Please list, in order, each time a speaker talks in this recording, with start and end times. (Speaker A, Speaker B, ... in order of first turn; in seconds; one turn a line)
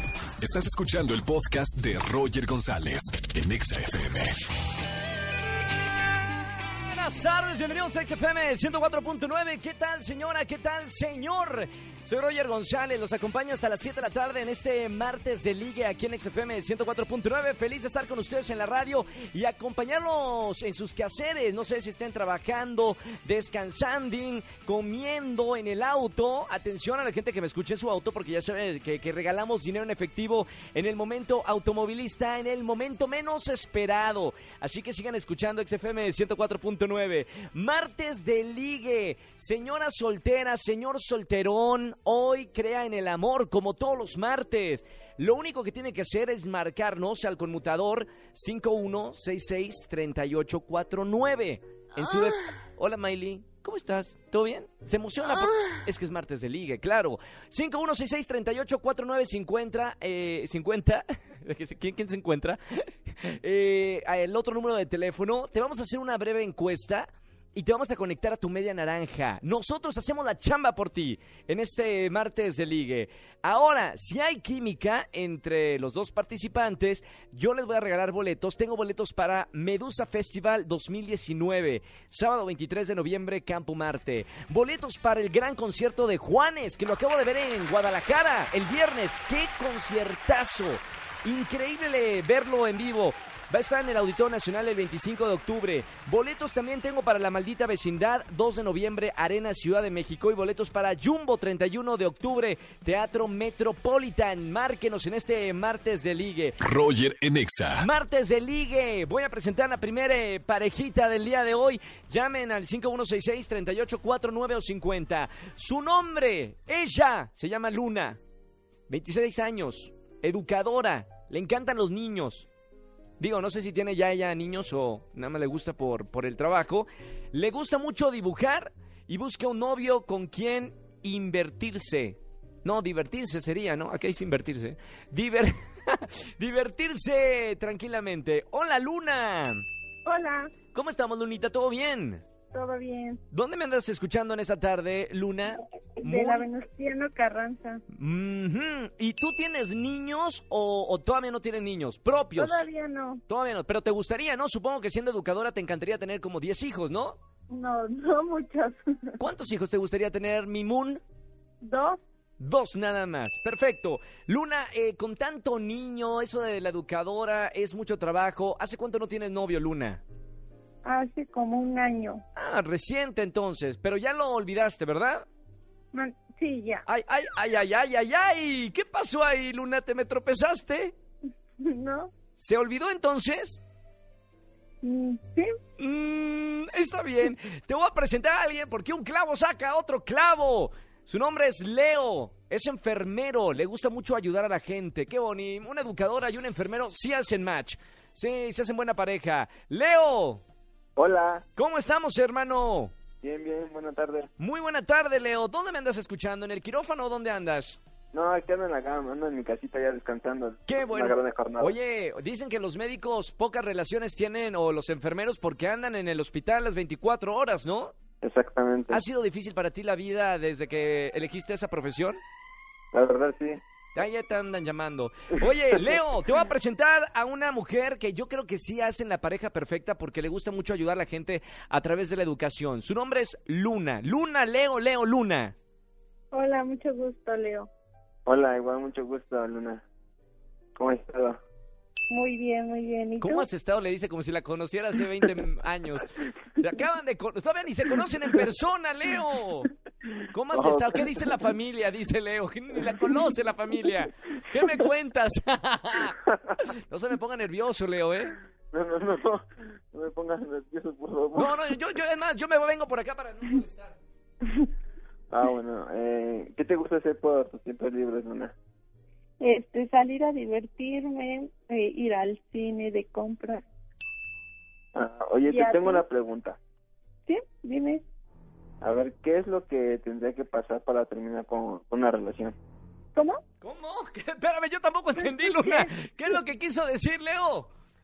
Speaker A: 0.4-4.4
Speaker B: 6.9-106.6
Speaker A: 106.6-107.9
Speaker B: 107.7-118.2
Speaker B: 118.9-122.5
Speaker B: 123.2-139.6
Speaker C: 140.1-140.5
Speaker B: 140.7-142.2
Speaker C: 142.5-143.2
Speaker B: 143.3-146.4
Speaker C: 146.0-147.8
Speaker B: 147.9-152.7
Speaker C: 152.3-153.2
Speaker B: 153.3-157.2
Speaker C: 157.5-159.2
Speaker B: 159.2-161.0
Speaker C: 161.6-162.0
Speaker B: 162.4-170.0
Speaker C: 170.8-172.2
Speaker B: 172.3-175.2
Speaker C: 175.9-176.8
Speaker B: 176.9-180.9
Speaker C: 181.6-182.1
Speaker B: 182.3-183.6
Speaker C: 184.8-185.5
Speaker B: 185.8-200.4
Speaker D: 200.9-201.4
Speaker B: 201.6-202.9
Speaker D: 203.2-204.3
Speaker B: 204.4-207.8
Speaker D: 208.1-211.8
Speaker B: 210.7-217.9
Speaker D: 218.2-219.0
Speaker B: 218.9-222.2
Speaker D: 222.9-223.6
Speaker B: 223.9-235.5
Speaker C: 236.3-237.7
Speaker D: 238.2-239.8
Speaker D: 240.8-241.4
Speaker C: 242.1-243.5
Speaker B: 243.2-249.7
Speaker B: 250.3-258.4
Speaker D: 250.5-251.0
Speaker D: 258.7-261.6
Speaker B: 261.4-264.0
Speaker D: 265.3-268.5
Speaker C: 269.4-273.6
Speaker D: 274.9-276.6
Speaker C: 275.4-276.0
Speaker C: 277.3-278.0
Speaker D: 278.8-282.5
Speaker C: 283.1-283.4
Speaker B: 283.6-287.7
Speaker C: 285.2-285.9